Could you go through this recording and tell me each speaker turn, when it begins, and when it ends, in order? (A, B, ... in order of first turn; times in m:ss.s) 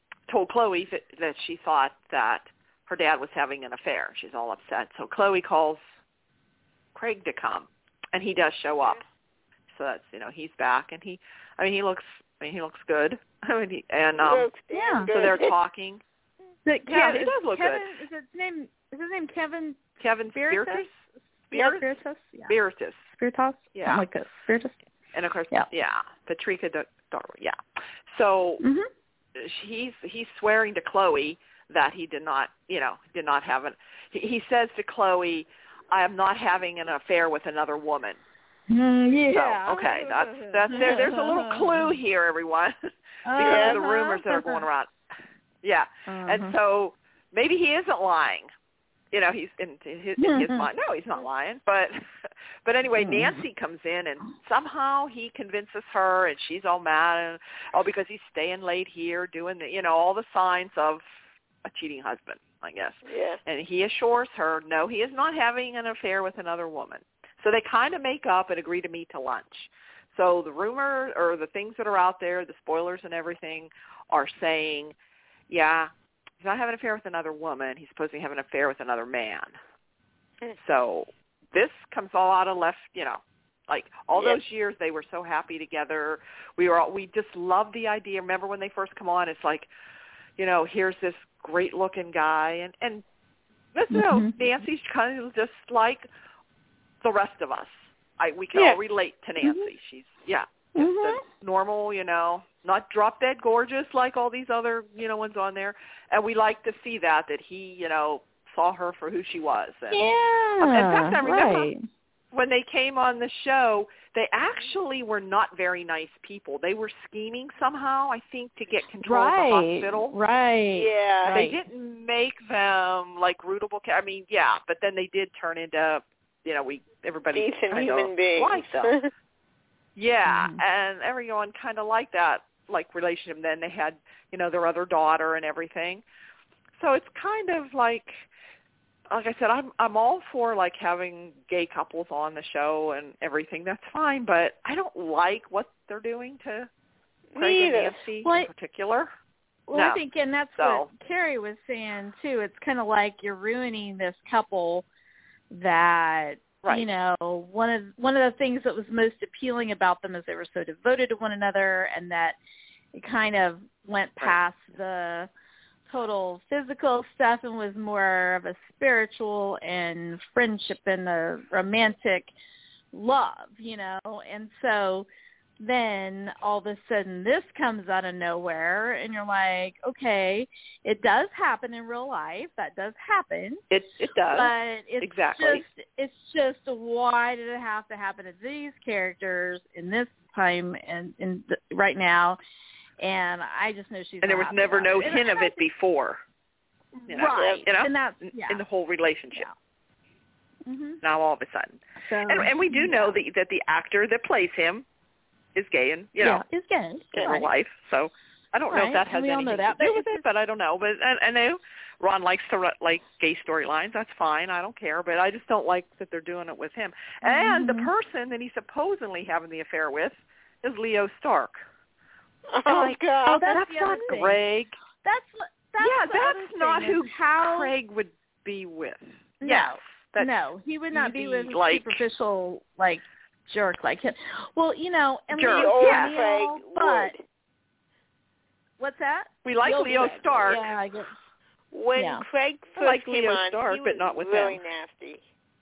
0:00.3-0:05.8 A
0:07.0-0:09.0 A
0:09.7-0:14.5 A
0:14.2-0:15.5 B
0:14.7-0:15.1 C
0:15.1-0:16.0 A
0:16.6-0:19.8 C
0:16.9-0:17.9 A
0:20.0-0:21.0 A
0:20.3-0:20.9 C
0:21.5-0:21.9 A
0:21.5-0:22.6 C
0:22.5-0:23.0 A
0:23.1-0:24.8 C
0:23.8-0:24.0 A
0:25.1-0:27.6 A
0:28.1-0:28.6 A
0:28.6-0:28.9 C
0:29.4-0:38.2 A
0:38.7-0:41.9 C
0:39.3-0:42.8 A
0:43.2-0:44.6 C
0:43.3-0:44.9 A
0:43.4-0:43.8 B
0:45.6-0:48.5 A
0:46.1-0:46.6 C
0:49.1-1:01.0 A
0:50.2-0:50.7 C
0:53.0-0:53.4 C
1:01.6-1:15.0 A
1:03.0-1:03.4 B
1:15.5-1:19.6 A
1:20.6-1:29.7 A
1:24.1-1:24.4 B
1:30.4-1:33.0 A
1:33.7-1:36.0 A
1:33.9-1:34.4 C
1:37.0-1:50.0 A
1:39.4-1:39.7 C
1:40.8-1:41.2 C
1:49.9-1:51.8 C
1:50.6-1:51.7 A
1:52.3-2:00.1 A
1:59.0-2:01.6 C
2:00.8-2:01.4 B
2:01.3-2:09.0 A
2:07.3-2:09.1 B
2:10.0-2:16.0 A
2:10.3-2:10.6 C
2:16.7-2:18.3 A
2:19.1-2:26.7 A
2:27.3-2:28.0 B
2:27.4-2:29.1 A
2:28.2-2:28.5 C
2:29.7-2:34.9 C
2:29.7-2:30.0 A
2:30.6-2:30.9 A
2:35.5-2:42.4 C
2:42.9-2:45.3 C
2:45.9-2:52.3 C
2:52.9-2:55.1 C
2:55.6-3:03.6 C
3:03.7-3:05.6 A
3:04.3-3:12.4 C
3:13.0-3:15.6 C
3:14.2-3:16.2 A
3:17.0-3:18.6 C
3:17.1-3:19.5 A
3:17.2-3:17.6 B
3:20.7-3:21.0 C
3:21.0-3:24.9 A
3:22.0-3:23.2 C
3:25.6-3:26.4 A
3:26.2-3:27.5 C
3:27.1-3:41.6 A
3:28.7-3:30.2 C
3:37.2-3:37.9 C
3:42.5-3:43.5 B
3:42.7-3:44.8 A
3:43.3-3:44.4 C
3:45.0-3:47.7 C
3:45.8-3:50.3 A
3:49.4-3:57.1 C
3:50.9-3:52.0 A
3:55.3-3:56.2 A
3:55.6-3:57.2 B
3:58.8-4:01.2 C
3:59.4-4:00.7 A
3:59.9-4:00.6 B
4:01.7-4:05.2 B
4:02.0-4:02.2 C
4:02.8-4:04.6 A